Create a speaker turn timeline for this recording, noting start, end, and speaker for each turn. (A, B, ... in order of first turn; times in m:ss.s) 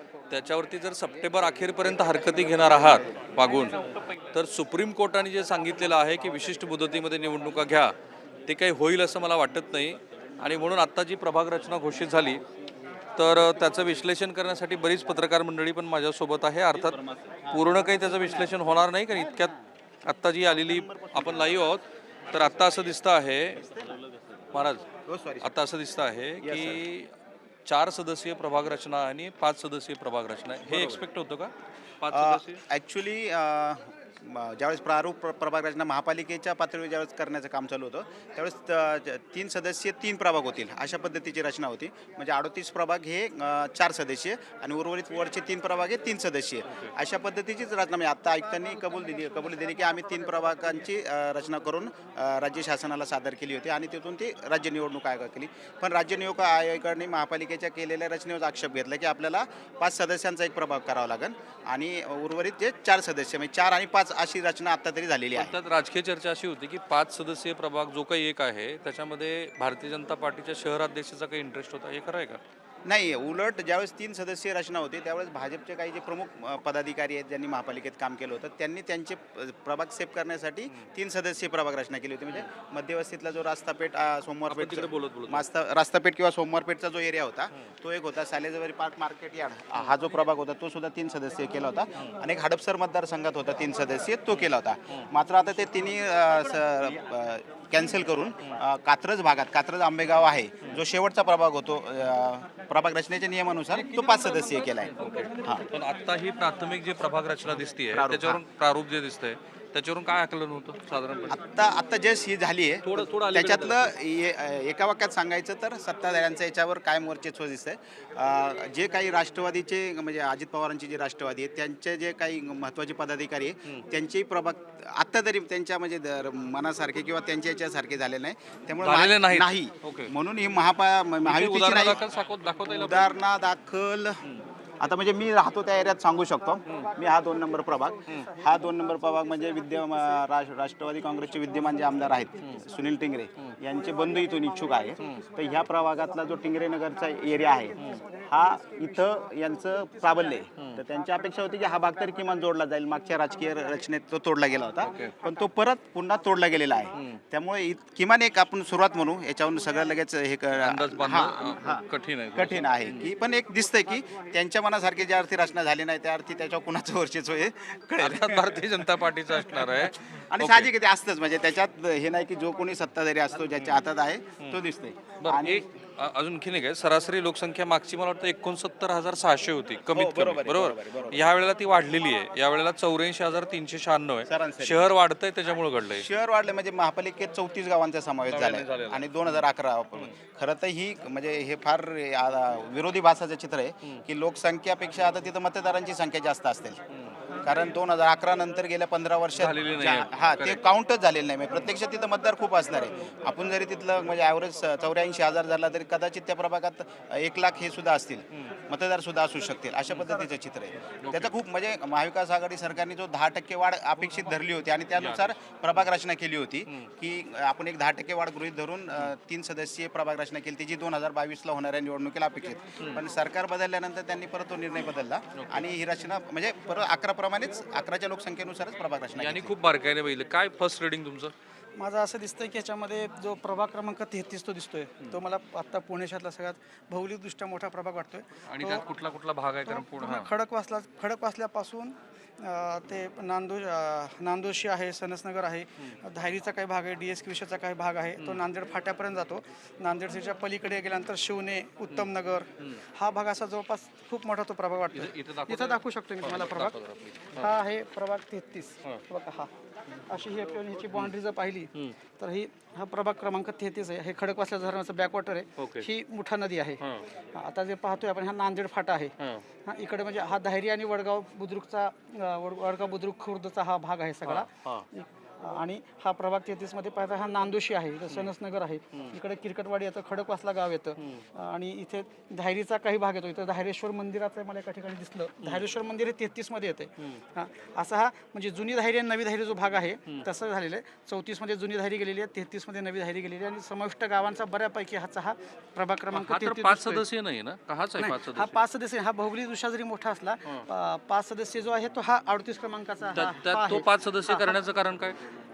0:00.3-0:07.9 A
0:08.4-0:12.4 A
0:13.2-0:17.0 A
0:16.7-0:19.6 B
0:17.5-0:19.5 A
0:20.0-0:23.6 A
0:20.5-0:21.6 B
0:23.6-0:24.0 B
0:24.5-0:24.9 A
0:25.0-0:25.5 B
0:25.4-0:27.1 A
0:26.4-0:26.9 B
0:27.6-0:32.6 A
0:30.6-0:31.0 B
0:32.1-1:05.6 B
0:48.6-0:50.4 C
1:05.3-1:12.4 A
1:12.9-1:44.9 B
1:24.5-1:25.4 A
1:45.0-1:51.4 A
1:47.9-1:48.4 B
1:51.3-2:12.0 B
1:52.8-1:53.9 A
2:08.8-2:10.1 A
2:11.2-2:13.1 A
2:12.7-2:14.2 B
2:14.8-2:27.8 B
2:16.7-2:20.2 C
2:21.4-2:22.9 C
2:23.7-2:29.1 C
2:28.3-2:48.7 B
2:29.9-2:30.4 C
2:34.8-2:35.1 A
2:35.1-2:35.4 C
2:37.0-2:37.2 A
2:40.6-2:43.0 A
2:48.0-2:50.7 A
2:49.4-2:55.6 B
2:55.2-3:06.1 A
2:59.9-3:01.3 B
3:04.3-3:04.8 B
3:05.9-3:16.8 B
3:08.3-3:09.4 A
3:17.4-3:49.5 B
3:19.4-3:20.6 A
3:29.9-3:30.2 A
3:31.0-3:31.3 A
3:35.0-3:35.3 A
3:45.4-3:45.6 A
3:49.2-3:51.3 A
3:51.8-3:58.9 C
3:58.5-4:00.3 A
3:59.6-4:16.8 C
4:14.9-4:17.6 A
4:17.3-4:19.5 C
4:20.1-4:26.8 C
4:25.6-4:25.9 A
4:26.8-4:27.1 A
4:27.3-4:29.1 C
4:29.2-4:29.4 A
4:29.6-4:57.0 C
4:34.2-4:34.8 A
4:41.0-4:41.2 A
4:56.1-4:58.6 A
4:58.0-5:04.6 C
5:03.1-5:05.2 A